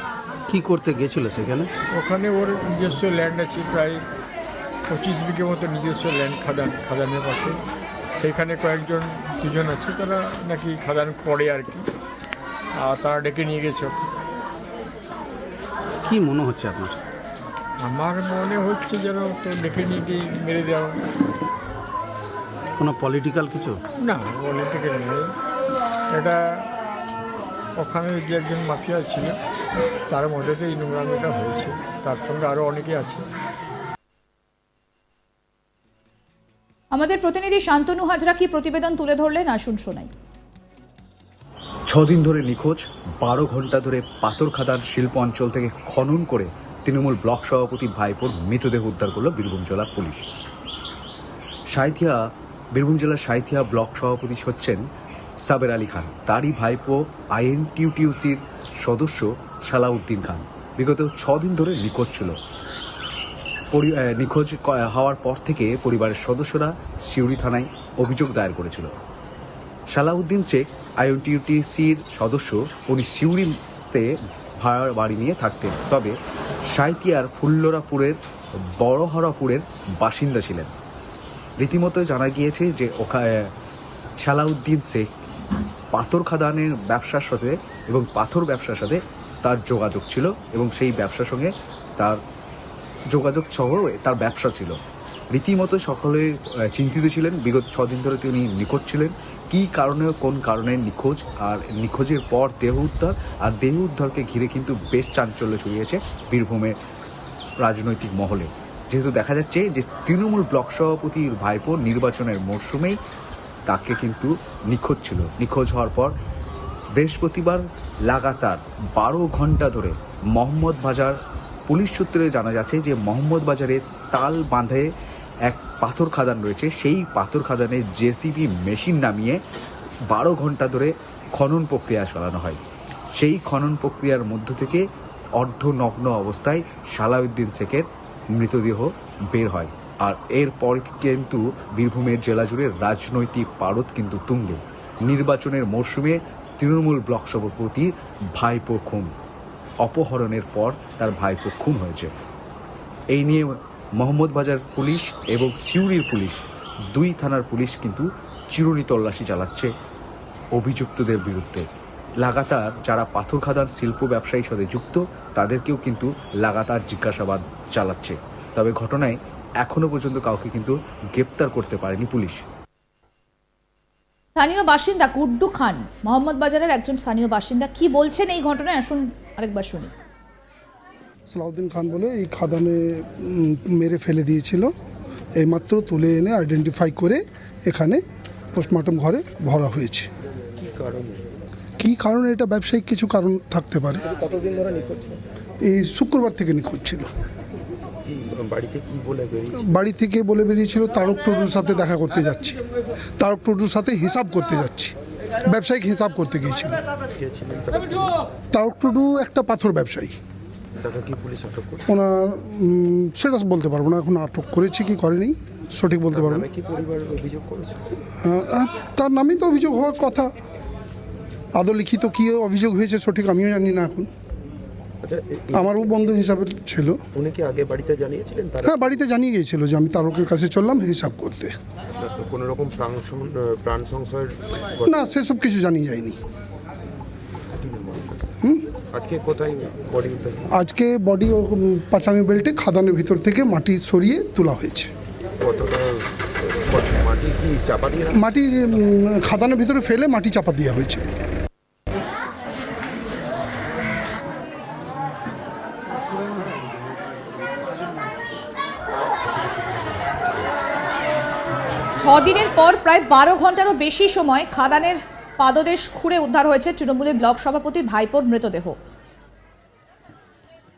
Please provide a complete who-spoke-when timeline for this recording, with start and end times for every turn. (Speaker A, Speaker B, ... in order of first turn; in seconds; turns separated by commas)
Speaker A: 0.5-1.7, Speaker B: 1.9-4.0, Speaker B: 4.9-7.6, Speaker B: 8.2-11.9, Speaker B: 12.8-14.1, Speaker A: 16.1-17.0, Speaker B: 17.8-21.0, Speaker A: 22.8-23.8, Speaker B: 24.0-25.3, Speaker B: 26.1-26.4, Speaker B: 27.8-29.4, Speaker B: 30.1-33.2, Speaker C: 36.9-40.1, Speaker D: 41.9-50.3, Speaker D: 51.7-52.2, Speaker D: 52.7-54.8, Speaker D: 55.4-62.4, Speaker D: 63.7-68.9, Speaker D: 69.9-78.2, Speaker D: 78.8-80.7, Speaker D: 81.6-83.5, Speaker D: 84.2-85.1, Speaker D: 85.9-92.2, Speaker D: 93.1-94.8, Speaker D: 95.3-106.8, Speaker D: 107.6-113.0, Speaker D: 113.7-116.1, Speaker D: 116.9-124.9, Speaker D: 125.5-129.4, Speaker D: 130.1-132.6, Speaker D: 133.2-134.8, Speaker D: 135.4-149.1, Speaker D: 149.8-152.1, Speaker D: 153.1-156.4, Speaker D: 156.9-159.7, Speaker D: 160.6-161.7, Speaker D: 162.2-172.4, Speaker C: 174.4-179.9, Speaker E: 181.3-184.7, Speaker E: 185.4-188.0, Speaker E: 188.5-190.1, Speaker F: 190.6-191.3, Speaker E: 191.8-194.1, Speaker E: 195.6-197.1, Speaker F: 198.0-199.6, Speaker E: 199.6-202.6, Speaker E: 203.2-204.9, Speaker E: 205.5-206.8, Speaker F: 207.1-208.2, Speaker E: 208.5-210.1, Speaker F: 210.8-211.8, Speaker E: 211.9-216.5, Speaker F: 216.1-217.8, Speaker E: 218.2-220.3, Speaker E: 221.6-224.1, Speaker F: 225.0-225.7, Speaker E: 225.5-227.0, Speaker F: 227.1-228.8, Speaker E: 228.6-231.6, Speaker F: 232.0-235.0, Speaker E: 234.9-236.2, Speaker F: 237.5-238.3, Speaker F: 238.9-240.5, Speaker E: 240.5-244.9, Speaker F: 245.4-248.2, Speaker E: 248.1-251.1, Speaker C: 262.0-268.8